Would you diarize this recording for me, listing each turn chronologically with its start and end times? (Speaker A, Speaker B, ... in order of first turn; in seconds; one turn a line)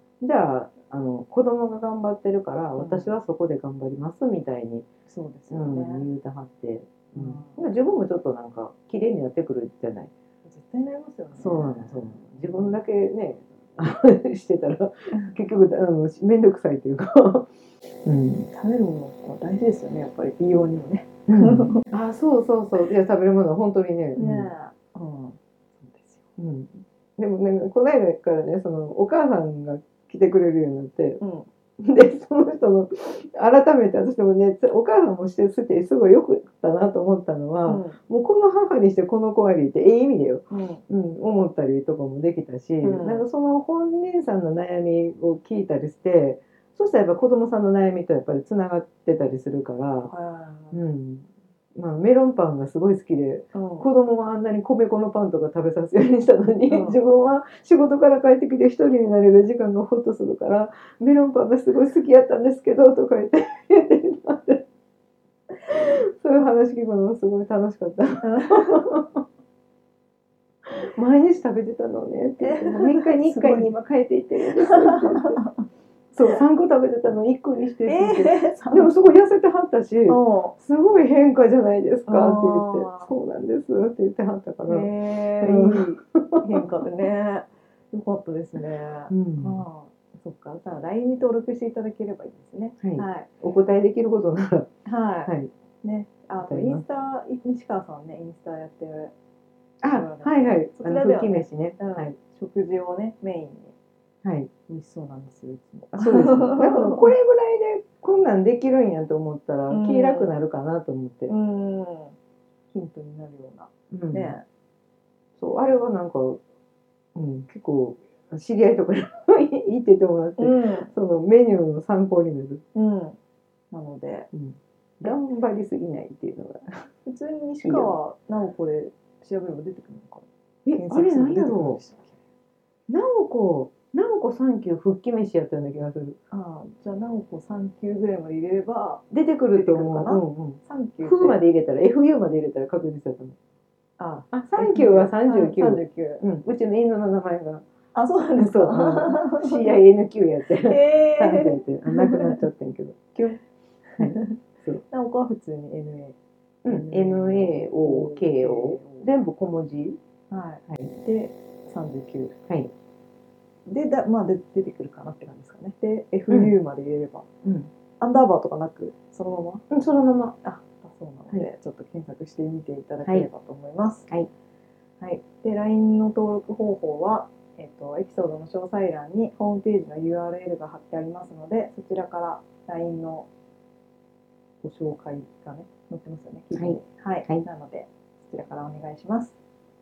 Speaker A: 0.2-4.9
Speaker B: 2.8-3.2
Speaker B: 5.1-6.1
Speaker A: 5.5-10.1
Speaker B: 7.2-7.7
Speaker B: 10.4-12.8
Speaker A: 11.4-17.5
Speaker A: 18.1-18.5
Speaker B: 18.5-21.8
Speaker A: 21.3-24.5
Speaker B: 24.2-26.2
Speaker A: 26.4-31.2
Speaker B: 31.2-31.5
Speaker A: 31.8-50.1
Speaker B: 37.6-38.0
Speaker B: 40.5-40.8
Speaker B: 42.8-43.2
Speaker B: 50.1-50.8
Speaker A: 50.7-64.6
Speaker B: 53.5-53.9
Speaker B: 56.7-57.0
Speaker A: 65.7-69.2
Speaker B: 68.2-68.8
Speaker A: 70.8-75.4
Speaker B: 72.4-73.7
Speaker B: 74.7-75.5
Speaker A: 76.1-84.9
Speaker B: 77.9-79.0
Speaker B: 80.1-80.5
Speaker B: 82.1-83.1
Speaker B: 84.7-93.3
Speaker A: 85.4-86.6
Speaker A: 89.1-89.6
Speaker A: 92.8-94.7
Speaker B: 94.8-99.1
Speaker A: 96.4-96.8
Speaker A: 99.8-102.2
Speaker B: 99.9-103.8
Speaker A: 104.2-104.5
Speaker B: 104.7-107.1
Speaker A: 105.9-111.3
Speaker B: 109.7-110.3
Speaker B: 111.3-112.2
Speaker B: 112.7-114.5
Speaker A: 113.9-114.4
Speaker A: 115.4-116.4
Speaker A: 117.2-122.6
Speaker B: 120.4-120.9
Speaker B: 122.8-123.2
Speaker B: 123.7-124.3
Speaker A: 124.3-126.7
Speaker B: 127.0-132.2
Speaker A: 127.6-128.0
Speaker A: 130.7-131.8
Speaker A: 132.9-136.2
Speaker B: 136.3-141.4
Speaker A: 139.1-143.3
Speaker B: 144.0-146.2
Speaker A: 144.3-147.6
Speaker B: 147.9-149.8
Speaker A: 148.4-153.4
Speaker B: 150.5-152.2
Speaker B: 153.9-154.4
Speaker A: 154.0-154.8
Speaker B: 154.9-159.1
Speaker A: 156.7-160.0
Speaker B: 160.3-162.4
Speaker B: 163.7-167.3
Speaker A: 167.4-167.7
Speaker B: 168.0-169.6
Speaker A: 169.7-170.4
Speaker B: 170.4-174.1
Speaker B: 175.0-183.3
Speaker B: 184.6-189.3
Speaker A: 186.5-187.5